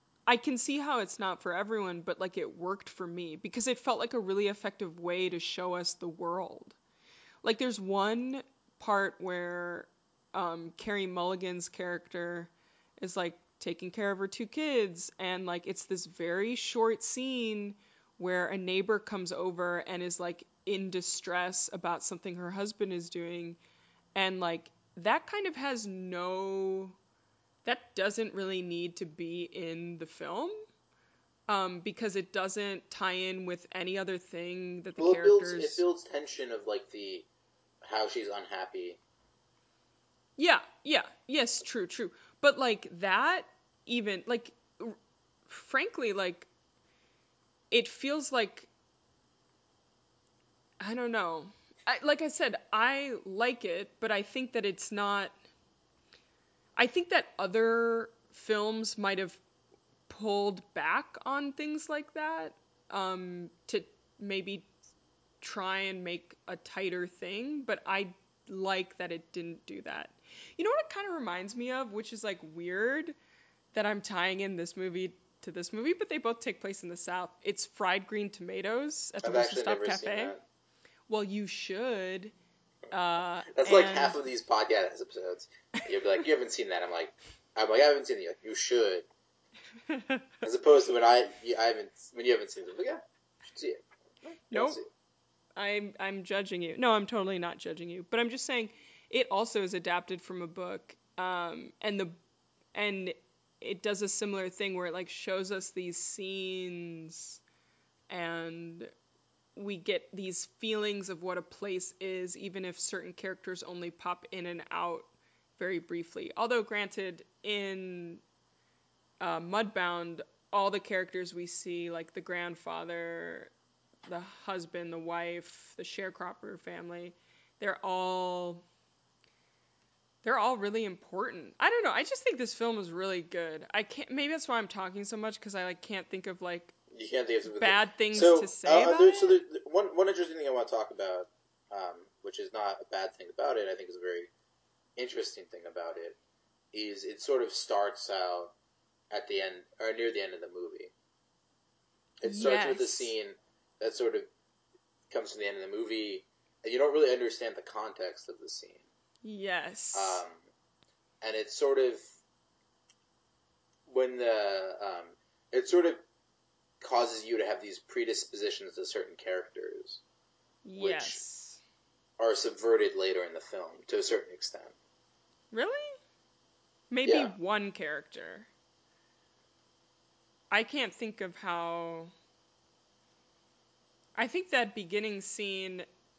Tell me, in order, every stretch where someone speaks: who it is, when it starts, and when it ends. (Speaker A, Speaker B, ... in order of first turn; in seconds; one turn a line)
Speaker A: 0.3-6.8
Speaker A: 7.4-23.6
Speaker A: 24.1-27.0
Speaker A: 27.6-30.6
Speaker A: 31.5-35.8
Speaker B: 35.0-37.2
Speaker B: 37.8-39.0
Speaker A: 40.4-45.0
Speaker A: 45.5-46.5
Speaker A: 47.7-48.7
Speaker A: 50.8-55.3
Speaker A: 56.8-59.4
Speaker A: 60.1-64.7
Speaker A: 65.4-73.1
Speaker A: 73.7-80.3
Speaker B: 79.2-80.4
Speaker A: 81.1-82.3
Speaker A: 82.9-84.2
Speaker B: 83.5-89.0
Speaker A: 89.9-90.2
Speaker B: 90.4-93.8
Speaker B: 94.4-94.9
Speaker A: 94.5-94.8
Speaker A: 95.5-102.2
Speaker A: 102.7-107.4
Speaker A: 108.1-108.9
Speaker A: 109.5-118.2
Speaker A: 119.2-123.5
Speaker A: 124.0-128.6
Speaker A: 130.2-136.7
Speaker B: 136.9-144.3
Speaker A: 137.5-139.4
Speaker B: 145.0-146.2
Speaker B: 146.7-148.5
Speaker B: 149.1-150.9
Speaker B: 152.2-154.3
Speaker A: 152.2-153.1
Speaker B: 155.1-158.8
Speaker A: 159.2-160.2
Speaker B: 159.9-160.4
Speaker B: 161.2-162.0
Speaker B: 163.9-166.0
Speaker B: 166.8-170.0
Speaker A: 170.6-171.6
Speaker B: 170.8-171.2
Speaker B: 172.2-174.7
Speaker A: 175.5-176.0
Speaker A: 176.9-178.5
Speaker B: 177.0-177.3
Speaker A: 180.5-182.1
Speaker A: 184.1-185.8